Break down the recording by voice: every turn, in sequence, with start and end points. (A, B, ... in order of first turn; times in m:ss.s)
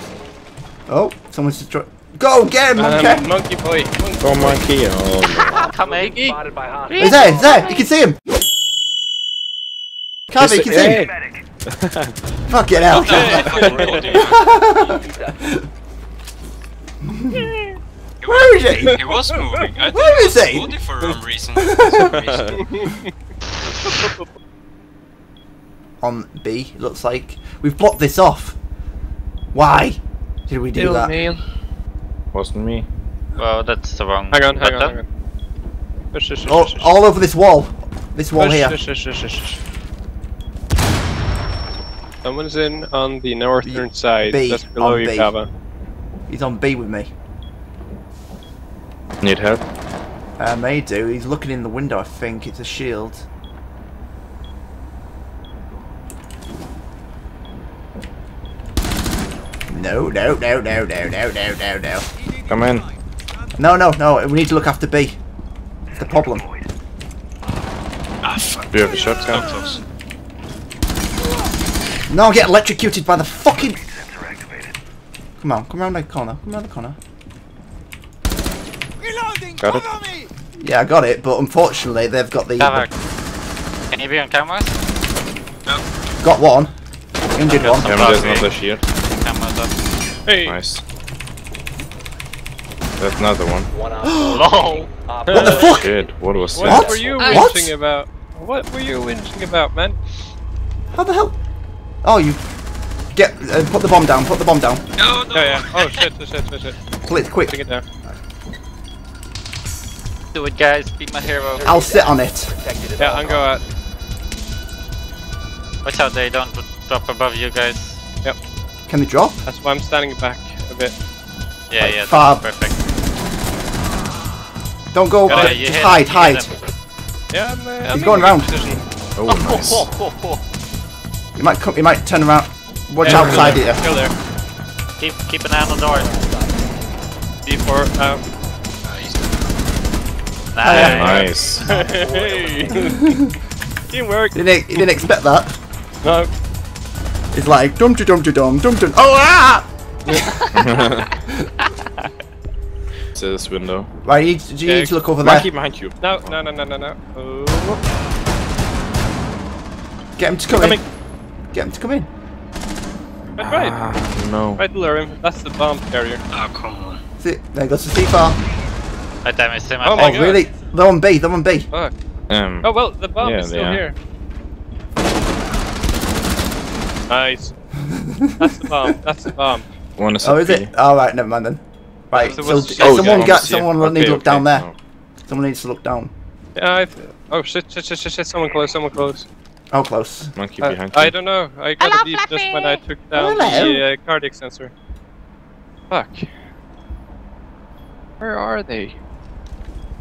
0:00.9-0:03.3 A
0:02.8-0:04.6 B
0:04.2-0:05.7 C
0:05.4-0:06.2 D
0:05.8-0:06.4 B
0:06.3-0:07.4 E
0:06.9-0:07.8 D
0:07.0-0:08.2 A
0:10.3-0:11.1 A
0:10.4-0:11.0 C
0:10.6-0:11.1 E
0:12.5-0:15.6 A
0:12.7-0:14.5 F
0:13.1-0:14.2 B
0:14.6-0:15.4 E
0:17.0-0:17.5 A
0:17.4-0:17.7 B
0:18.2-0:22.7 F
0:18.3-0:19.0 A
0:18.8-0:19.8 B
0:19.8-0:20.8 A
0:21.6-0:22.1 A
0:21.9-0:23.0 B
0:23.9-0:24.2 B
0:26.0-0:28.6 A
0:29.5-0:31.2 A
0:30.8-0:31.4 B
0:32.3-0:32.9 C
0:33.4-0:35.0 D
0:34.3-0:35.0 B
0:36.1-0:37.0 B
0:36.5-0:38.8 A
0:38.4-0:39.6 B
0:42.2-0:45.5 B
0:43.6-0:45.4 A
0:46.3-0:47.1 A
0:49.2-0:49.6 C
0:50.4-0:53.3 A
0:59.7-1:02.1 A
1:02.5-1:02.8 C
1:03.6-1:05.2 A
1:06.0-1:06.5 A
1:08.2-1:09.8 F
1:08.7-1:09.8 C
1:12.1-1:13.8 A
1:15.4-1:17.0 A
1:19.6-1:19.9 C
1:20.6-1:22.9 A
1:22.6-1:22.9 D
1:23.9-1:24.7 D
1:26.2-1:26.7 A
1:27.3-1:27.9 A
1:27.4-1:28.5 D
1:27.8-1:28.8 C
1:29.1-1:29.7 D
1:30.3-1:30.6 B
1:30.4-1:30.8 C
1:33.0-1:33.7 C
1:33.8-1:37.4 E
1:34.0-1:34.5 A
1:34.2-1:34.9 D
1:35.3-1:35.7 B
1:35.3-1:35.9 A
1:35.7-1:37.1 C
1:36.6-1:40.0 B
1:36.6-1:37.8 A
1:37.2-1:37.5 D
1:40.9-1:41.4 A
1:42.0-1:42.4 A
1:43.1-1:44.8 A
1:45.0-1:46.1 F
1:45.3-1:46.8 B
1:47.0-1:48.1 A
1:47.4-1:47.8 B
1:50.3-1:51.7 D
1:51.5-1:53.6 E
1:51.6-1:52.5 A
1:53.0-1:53.6 B
1:55.8-1:58.0 D
1:58.9-1:59.4 A
1:59.5-2:00.9 B
2:01.7-2:02.8 D
2:01.8-2:02.5 A
2:04.9-2:06.5 A
2:05.3-2:06.5 D
2:05.3-2:05.6 B
2:07.3-2:08.8 B
2:07.9-2:08.5 A
2:09.2-2:09.9 C
2:09.3-2:10.4 D
2:11.4-2:13.8 A
2:13.0-2:14.1 B
2:13.2-2:13.6 C
2:15.0-2:16.1 D
2:15.9-2:16.9 E
2:17.4-2:18.2 B
2:18.8-2:19.4 F
2:20.5-2:21.3 D
2:20.6-2:21.1 A
2:20.7-2:21.7 C
2:21.1-2:23.1 B
2:21.6-2:22.9 E
2:23.9-2:24.9 B
2:24.3-2:25.5 A
2:26.0-2:26.3 B
2:27.3-2:30.4 A
2:30.1-2:31.0 D
2:30.5-2:31.1 C
2:33.2-2:33.9 C
2:34.0-2:35.5 A
2:34.6-2:37.8 B
2:35.3-2:36.4 C
2:40.2-2:40.8 A
2:40.5-2:40.8 B
2:41.5-2:42.1 A
2:43.4-2:43.8 B
2:43.4-2:44.7 C
2:44.6-2:46.2 B
2:46.3-2:47.0 F
2:47.2-2:48.4 A
2:49.2-2:50.4 D
2:49.8-2:50.4 B
2:50.0-2:51.7 A
2:52.3-2:53.9 C
2:52.6-2:54.0 B
2:57.1-2:57.5 B
2:57.8-2:58.5 A
2:58.4-2:59.7 B
3:00.0-3:00.7 C
3:00.2-3:04.7 A
3:02.2-3:03.4 B
3:02.8-3:04.8 C
3:05.3-3:06.1 A
3:06.6-3:09.3 B
3:09.7-3:10.3 A
3:10.4-3:11.1 C
3:10.6-3:14.7 B
3:11.8-3:12.8 D
3:13.1-3:13.8 A
3:15.9-3:16.3 B
3:18.2-3:19.0 B